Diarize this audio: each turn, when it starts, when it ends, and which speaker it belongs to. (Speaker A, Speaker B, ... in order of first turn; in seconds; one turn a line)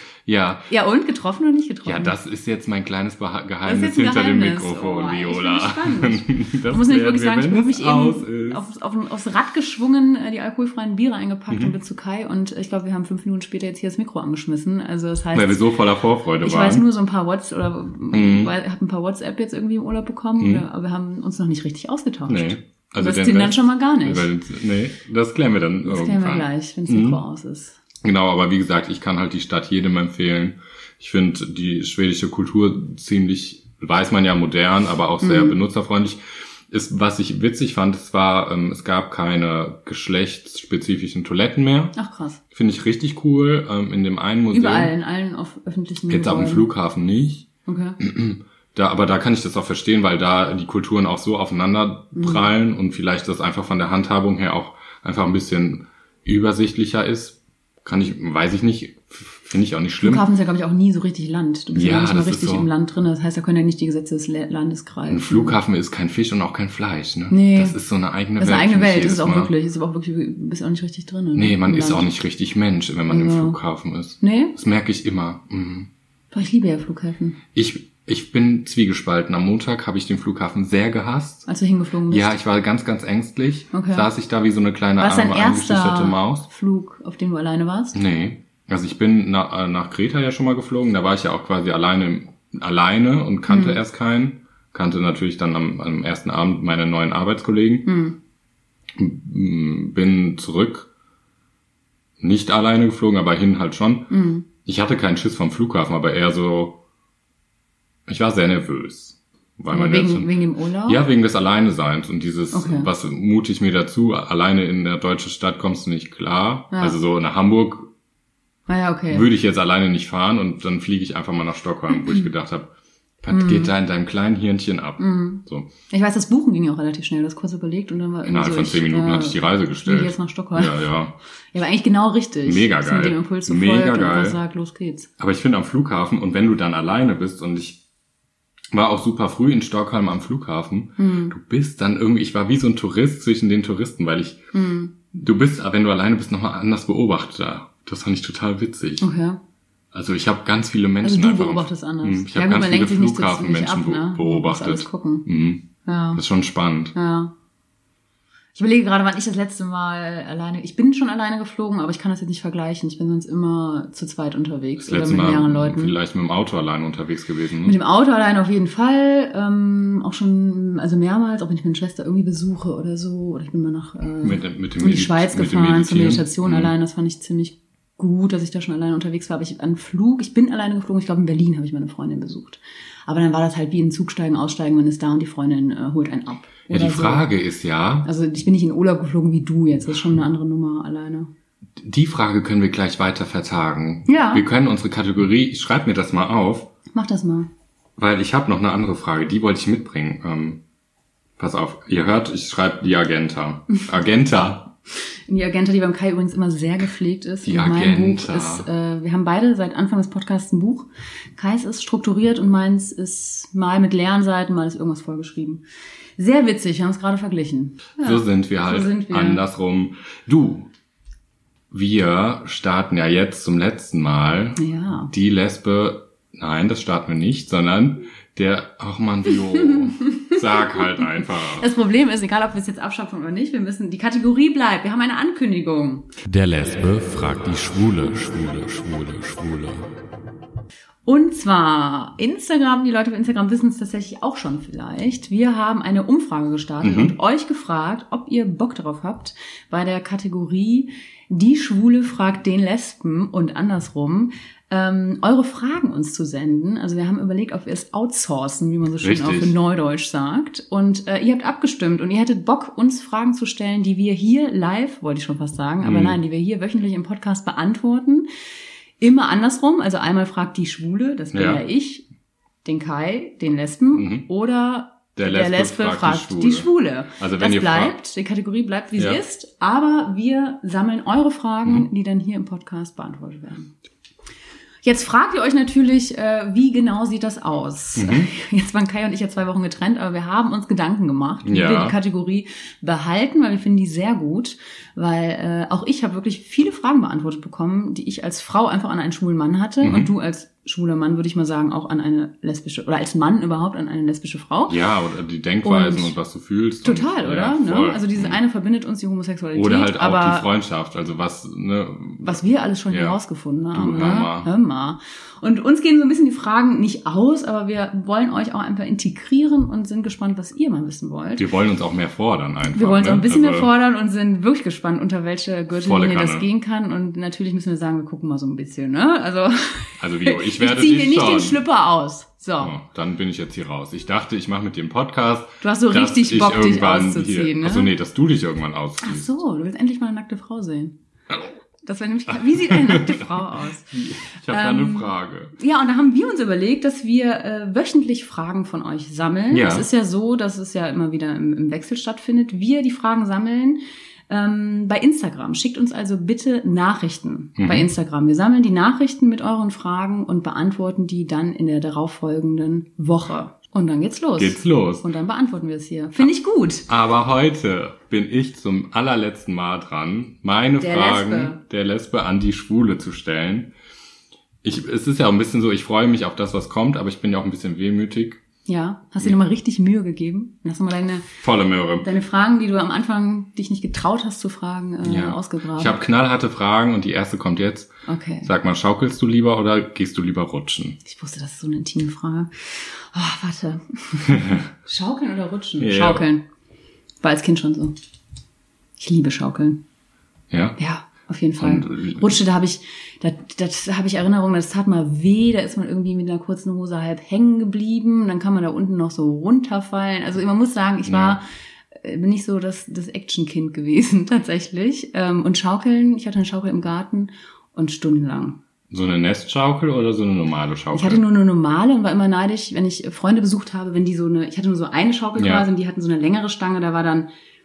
Speaker A: 0.2-0.7
Speaker B: 0.7-2.1
Speaker A: 1.8-8.6
Speaker B: 3.6-15.7
Speaker A: 11.5-11.7
Speaker A: 15.3-16.8
Speaker B: 16.4-24.3
Speaker A: 18.1-18.5
Speaker A: 20.4-20.6
Speaker A: 22.3-27.2
Speaker B: 25.8-27.8
Speaker A: 28.0-41.9
Speaker B: 35.2-35.6
Speaker B: 41.9-42.4
Speaker A: 42.5-44.9
Speaker B: 44.5-46.7
Speaker A: 46.1-47.5
Speaker B: 47.6-48.0
Speaker A: 48.0-60.2
Speaker B: 52.1-52.4
Speaker B: 60.0-65.6
Speaker A: 61.7-62.7
Speaker A: 65.1-69.5
Speaker B: 67.3-67.8
Speaker B: 68.4-72.0
Speaker A: 71.3-75.9
Speaker B: 73.1-73.6
Speaker B: 74.2-74.5
Speaker B: 76.3-77.4
Speaker A: 77.5-81.5
Speaker B: 81.5-82.3
Speaker A: 82.1-86.5
Speaker B: 83.7-84.1
Speaker B: 85.0-88.0
Speaker A: 87.9-97.9
Speaker B: 93.5-93.8
Speaker B: 97.8-98.2
Speaker A: 99.0-100.9
Speaker A: 102.2-104.1
Speaker B: 104.1-104.5
Speaker A: 104.6-106.8
Speaker A: 108.1-117.9
Speaker B: 109.7-111.0
Speaker B: 112.5-112.9
Speaker B: 116.7-117.0
Speaker B: 118.7-119.3
Speaker A: 119.1-125.7
Speaker B: 122.0-122.2
Speaker B: 123.3-123.7
Speaker B: 125.0-130.8
Speaker A: 128.2-131.2
Speaker B: 131.5-135.1
Speaker A: 132.4-134.4
Speaker A: 135.2-137.8
Speaker A: 138.7-144.4
Speaker B: 141.0-141.3
Speaker B: 144.5-144.9
Speaker A: 145.1-149.1
Speaker B: 149.0-149.4
Speaker A: 149.9-156.9
Speaker B: 151.0-155.3
Speaker B: 155.8-156.2
Speaker B: 156.9-157.3
Speaker B: 158.5-165.9
Speaker A: 164.8-167.8
Speaker B: 167.6-187.3
Speaker A: 174.2-176.7
Speaker A: 186.7-188.1
Speaker B: 188.0-191.3
Speaker A: 191.8-196.7
Speaker B: 194.1-194.4
Speaker B: 196.9-197.5
Speaker A: 198.0-200.6
Speaker A: 201.4-204.7
Speaker B: 205.3-215.6
Speaker A: 207.4-208.7
Speaker B: 216.2-219.4
Speaker A: 218.0-220.7
Speaker A: 221.7-231.7
Speaker B: 224.6-225.1
Speaker B: 229.6-236.1
Speaker A: 236.2-239.9
Speaker B: 241.1-268.3
Speaker A: 246.8-247.2
Speaker A: 259.0-259.6
Speaker A: 265.8-266.2
Speaker B: 269.0-272.1
Speaker A: 271.3-271.6
Speaker B: 272.6-283.7
Speaker A: 273.9-274.3
Speaker A: 275.1-277.9
Speaker B: 284.8-304.8
Speaker A: 287.9-288.3
Speaker A: 291.4-291.9
Speaker A: 299.8-300.1
Speaker A: 304.7-308.4
Speaker B: 305.6-306.1
Speaker B: 306.8-310.5
Speaker A: 309.5-313.2
Speaker B: 312.2-321.4
Speaker A: 313.7-314.5
Speaker A: 321.4-323.7
Speaker B: 322.7-332.7
Speaker A: 325.8-326.4
Speaker A: 330.0-331.6
Speaker A: 332.6-339.3
Speaker B: 335.6-337.9
Speaker B: 339.0-340.9
Speaker B: 341.8-344.0
Speaker A: 342.3-345.6
Speaker B: 344.5-366.9
Speaker A: 349.5-349.9
Speaker A: 357.6-357.9
Speaker A: 364.4-365.1
Speaker A: 366.9-373.7
Speaker B: 370.8-371.6
Speaker A: 374.6-378.4
Speaker B: 378.6-381.3
Speaker A: 381.4-382.1
Speaker B: 382.0-386.0
Speaker A: 385.0-387.9
Speaker B: 388.1-388.5
Speaker A: 388.4-391.0
Speaker B: 391.0-396.4
Speaker A: 395.8-396.2
Speaker B: 397.2-397.9
Speaker B: 399.0-399.8
Speaker A: 400.5-400.8
Speaker B: 400.8-411.4
Speaker A: 401.6-402.3
Speaker A: 411.1-411.4
Speaker B: 411.9-418.6
Speaker A: 418.9-421.2
Speaker B: 420.9-427.3
Speaker A: 425.4-425.7